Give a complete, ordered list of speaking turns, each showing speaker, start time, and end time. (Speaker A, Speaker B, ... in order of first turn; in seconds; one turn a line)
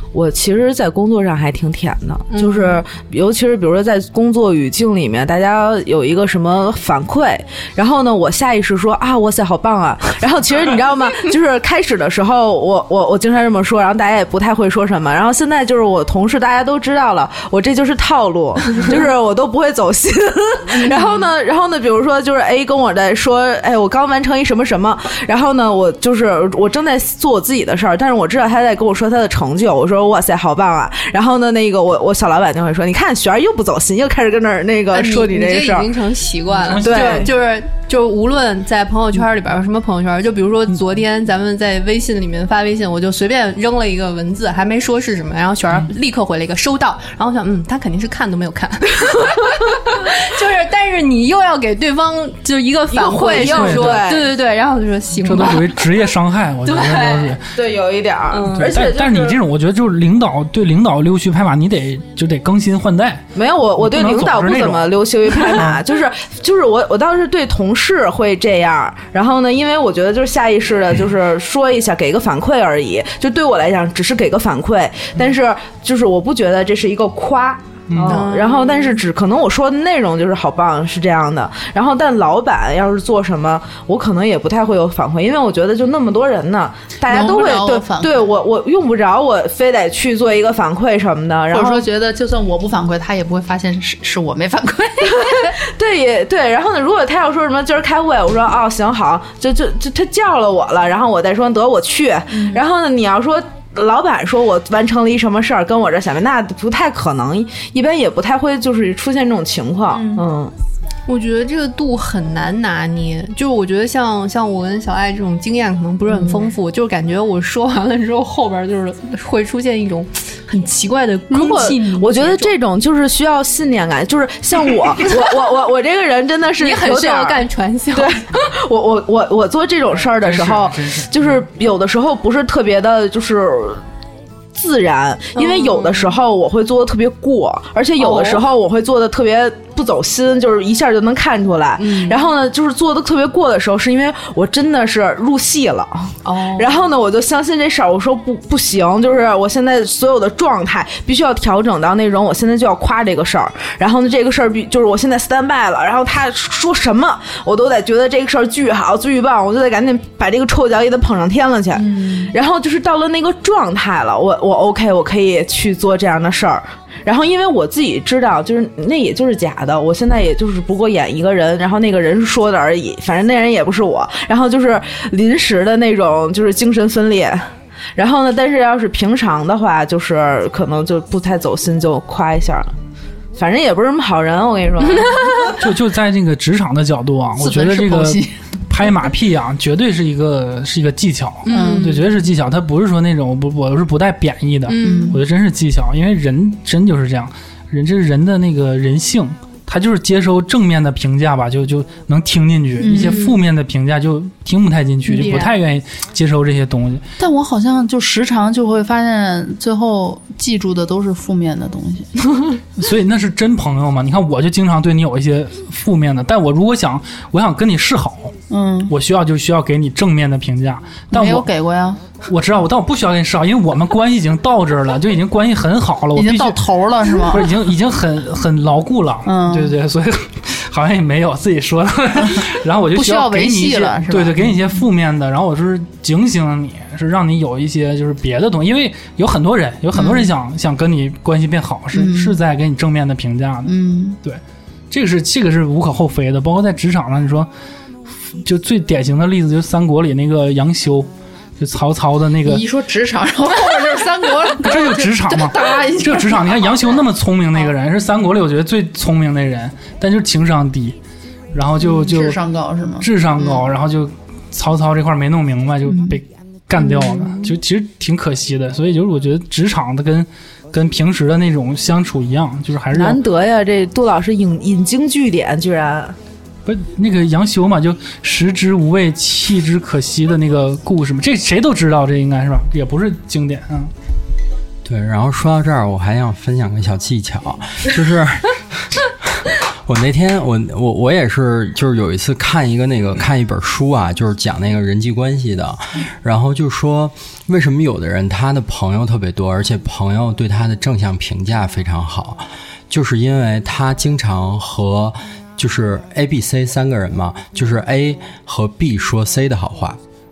Speaker A: 0.1-35.9
Speaker B: 2.3-2.8
Speaker B: 34.9-55.7
Speaker C: 36.5-37.3
Speaker A: 36.8-37.3
Speaker A: 52.9-54.3
Speaker C: 53.4-54.0
Speaker C: 55.2-57.5
Speaker A: 56.7-59.4
Speaker B: 58.3-58.7
Speaker C: 58.5-65.8
Speaker A: 63.3-91.8
Speaker C: 77.9-78.2
Speaker B: 78.0-78.9
Speaker D: 87.0-88.3
Speaker D: 91.5-95.6
Speaker A: 95.1-110.5
Speaker D: 102.3-102.6
Speaker D: 109.9-110.2
Speaker B: 111.1-122.5
Speaker A: 116.1-116.5
Speaker A: 121.3-133.8
Speaker B: 126.6-128.5
Speaker C: 130.0-131.4
Speaker A: 134.5-182.7
Speaker B: 135.3-136.2
Speaker B: 138.0-138.4
Speaker B: 141.8-142.2
Speaker B: 146.2-146.7
Speaker D: 161.8-162.3
Speaker A: 183.3-185.6
Speaker B: 184.8-185.3
Speaker C: 185.6-207.0
Speaker D: 187.4-188.3
Speaker B: 191.4-192.0
Speaker D: 191.5-192.0
Speaker B: 194.7-195.2
Speaker D: 194.8-195.2
Speaker D: 202.8-203.2
Speaker B: 202.9-203.4
Speaker B: 205.1-205.5
Speaker D: 207.2-212.3
Speaker C: 212.8-218.3
Speaker D: 218.5-218.9
Speaker C: 218.9-221.5
Speaker D: 221.1-222.0
Speaker C: 222.2-247.5
Speaker D: 226.1-227.5
Speaker D: 229.2-229.7
Speaker D: 232.9-234.7
Speaker D: 239.9-240.3
Speaker D: 241.9-242.3
Speaker D: 243.6-244.2
Speaker C: 248.3-252.7
Speaker D: 252.4-256.9
Speaker C: 254.6-261.0
Speaker C: 261.5-262.4
Speaker D: 261.8-263.6
Speaker C: 263.0-273.2
Speaker D: 265.9-266.2
Speaker A: 272.9-276.1
Speaker C: 276.6-283.9
Speaker E: 284.8-288.5
Speaker E: 289.8-310.0